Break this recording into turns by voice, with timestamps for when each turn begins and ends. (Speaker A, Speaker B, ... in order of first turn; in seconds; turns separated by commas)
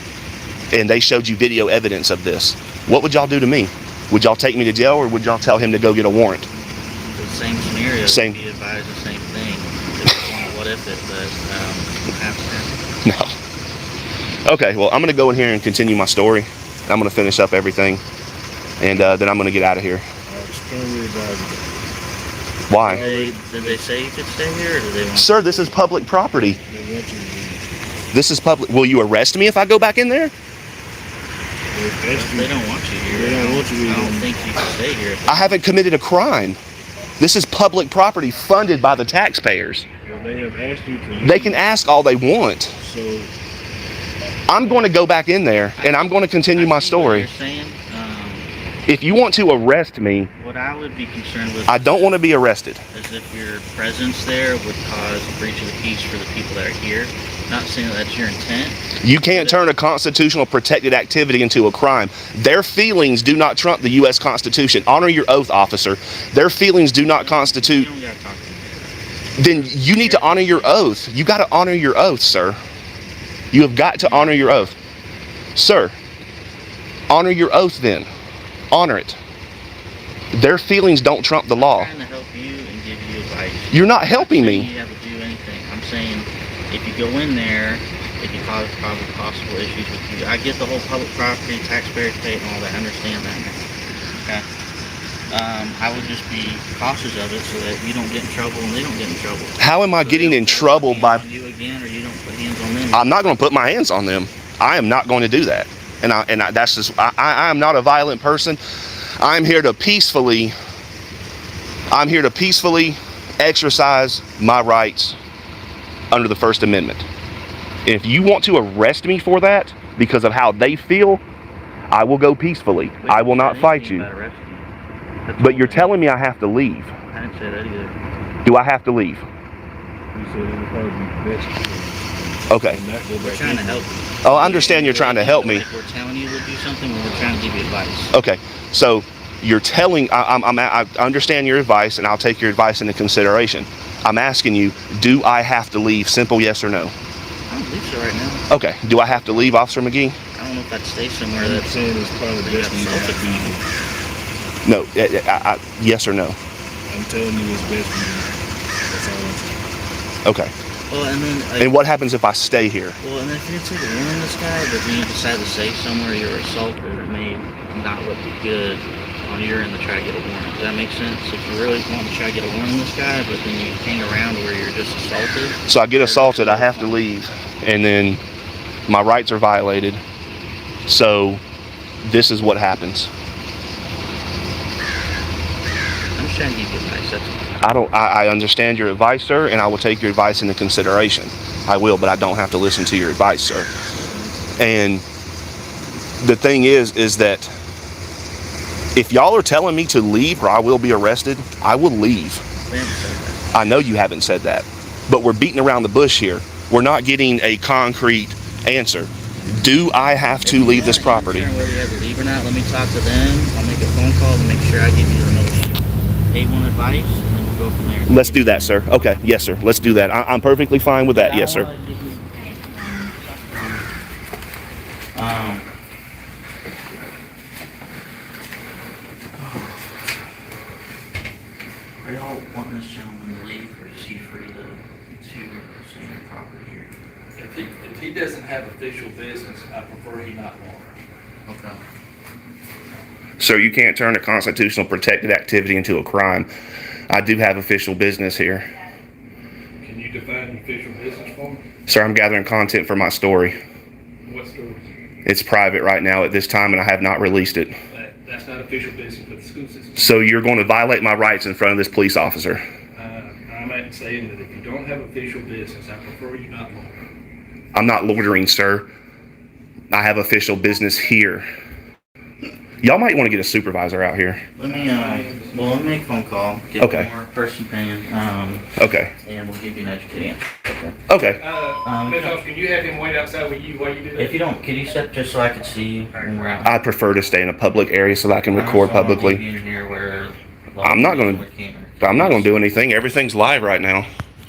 Speaker A: 0.7-6.5, Speaker B: 7.2-12.8, Speaker A: 8.1-8.4, Speaker A: 13.0-13.3, Speaker A: 14.5-18.0, Speaker A: 18.8-20.0, Speaker C: 20.3-21.8, Speaker A: 22.7-23.0, Speaker C: 22.8-23.8, Speaker B: 22.8-25.8, Speaker A: 25.2-26.6, Speaker C: 26.6-27.7, Speaker A: 28.1-30.3, Speaker C: 31.7-34.3, Speaker B: 32.1-35.7, Speaker A: 35.3-36.6, Speaker A: 37.2-39.9, Speaker C: 40.0-41.6, Speaker A: 41.2-42.8, Speaker C: 42.8-43.3, Speaker A: 44.5-47.3, Speaker B: 46.5-48.5, Speaker A: 48.9-50.3, Speaker B: 50.4-52.2, Speaker A: 51.7-52.8, Speaker B: 52.9-59.6, Speaker A: 59.0-67.9, Speaker B: 67.0-69.0, Speaker A: 69.4-72.6, Speaker B: 69.7-70.8, Speaker A: 73.5-74.8, Speaker B: 74.0-74.5, Speaker A: 75.5-76.0, Speaker A: 77.1-78.1, Speaker A: 78.7-79.2, Speaker A: 80.3-81.9, Speaker B: 81.5-93.6, Speaker A: 83.7-84.7, Speaker B: 94.2-94.5, Speaker B: 95.3-103.1, Speaker A: 99.6-101.2, Speaker A: 102.9-110.5, Speaker A: 111.9-115.2, Speaker A: 116.1-117.0, Speaker A: 117.8-121.2, Speaker A: 121.9-124.1, Speaker B: 123.0-124.7, Speaker B: 125.3-126.0, Speaker A: 125.4-126.9, Speaker B: 127.1-128.0, Speaker A: 128.4-129.2, Speaker C: 130.1-134.1, Speaker A: 132.5-132.8, Speaker B: 133.2-138.2, Speaker A: 134.2-135.7, Speaker A: 138.1-146.9, Speaker B: 147.5-148.4, Speaker A: 148.5-150.2, Speaker B: 150.3-153.6, Speaker C: 151.3-153.7, Speaker A: 154.7-156.4, Speaker C: 156.9-159.6, Speaker A: 160.2-160.5, Speaker B: 160.9-161.8, Speaker A: 161.6-163.0, Speaker B: 163.0-177.1, Speaker A: 175.7-178.2, Speaker A: 178.9-180.0, Speaker A: 180.9-181.4, Speaker A: 182.0-183.1, Speaker B: 186.2-187.8, Speaker A: 187.6-193.7, Speaker A: 194.6-195.0, Speaker A: 196.2-197.5, Speaker A: 198.9-202.4, Speaker B: 202.6-203.5, Speaker A: 203.5-211.5, Speaker B: 210.4-218.7, Speaker A: 218.1-221.7, Speaker B: 221.1-223.9, Speaker B: 225.2-225.7, Speaker B: 229.4-229.8, Speaker B: 232.0-236.9, Speaker D: 237.4-241.0, Speaker B: 241.5-241.8, Speaker A: 243.4-246.5, Speaker A: 247.1-248.7, Speaker D: 249.8-251.6, Speaker A: 251.9-253.6, Speaker D: 254.2-254.8, Speaker A: 255.3-257.7, Speaker D: 257.9-260.1, Speaker A: 260.0-262.6, Speaker D: 263.0-267.0, Speaker A: 267.7-268.9, Speaker A: 269.9-271.5, Speaker A: 272.8-274.4, Speaker B: 274.6-278.7, Speaker D: 274.6-276.0, Speaker A: 276.8-277.1, Speaker A: 278.8-279.1, Speaker B: 279.2-281.0, Speaker A: 281.1-281.4, Speaker D: 281.4-284.4, Speaker B: 281.8-282.4, Speaker B: 284.1-286.8, Speaker A: 286.6-289.4, Speaker B: 288.5-292.6, Speaker A: 290.8-291.4, Speaker A: 292.0-294.1